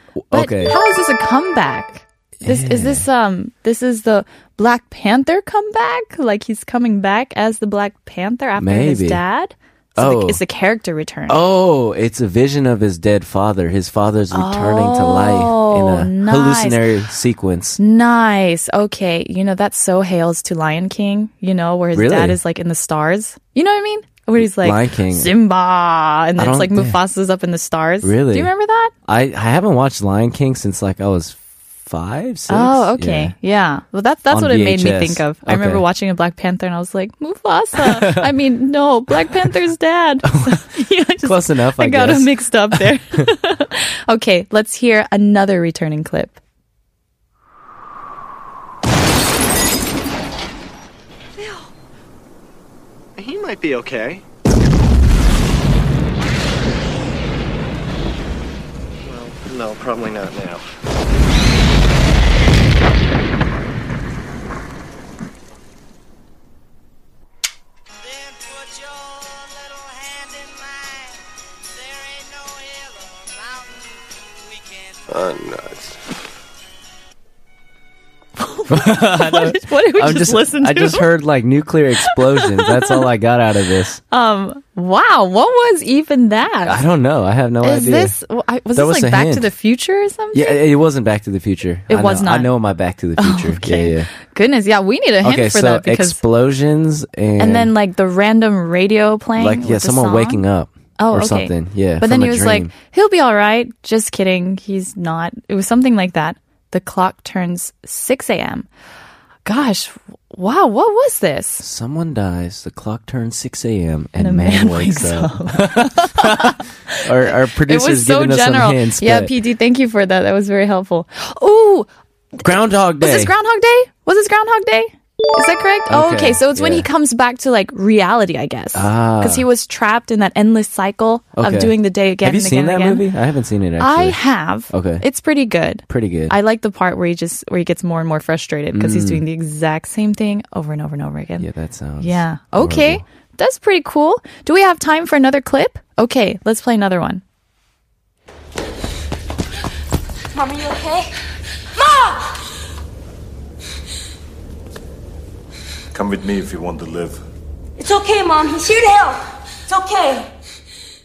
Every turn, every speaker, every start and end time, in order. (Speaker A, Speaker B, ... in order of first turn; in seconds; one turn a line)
Speaker A: 0.1-0.7
Speaker B: 0.3-11.4
Speaker A: 2.4-3.0
Speaker A: 8.6-9.2
Speaker A: 10.0-10.4
Speaker A: 11.3-17.8
Speaker B: 14.3-16.8
Speaker B: 17.8-28.9
Speaker A: 21.9-22.4
Speaker A: 24.4-25.3
Speaker A: 26.4-27.0
Speaker A: 28.0-28.5
Speaker A: 29.0-33.3
Speaker B: 32.5-46.4
Speaker A: 34.3-35.8
Speaker A: 37.8-38.3
Speaker A: 40.3-40.6
Speaker A: 41.2-43.3
Speaker C: 53.2-54.2
Speaker C: 59.0-60.6
Speaker D: 75.1-75.7
Speaker B: 78.4-81.1
Speaker A: 78.7-84.0
Speaker B: 82.0-83.1
Speaker B: 84.1-86.8
Speaker A: 86.6-88.1
Speaker B: 87.6-90.6
Speaker A: 88.7-89.5
Speaker A: 90.3-94.1
Speaker B: 91.9-92.5
Speaker B: 93.2-96.2
Speaker A: 95.2-97.7
Speaker B: 97.4-100.4
Speaker A: 99.4-102.7
Speaker B: 101.0-108.7
Speaker B: 109.4-111.6
Speaker A: 111.6-119.3
Speaker B: 114.2-117.0
Speaker B: 117.7-121.9
Speaker B: 122.4-133.0
Speaker A: 122.4-123.3
Speaker A: 125.9-126.9
Speaker A: 128.7-129.4
Speaker A: 131.4-134.2
Speaker B: 133.8-141.5
Speaker A: 134.7-135.0
Speaker A: 135.9-136.3
Speaker A: 138.7-139.2
Speaker A: 141.4-143.0
Speaker B: 142.0-147.2
Speaker E: 150.3-151.1
Speaker E: 151.8-152.4
Speaker D: 155.9-157.2
Speaker E: 157.8-160.3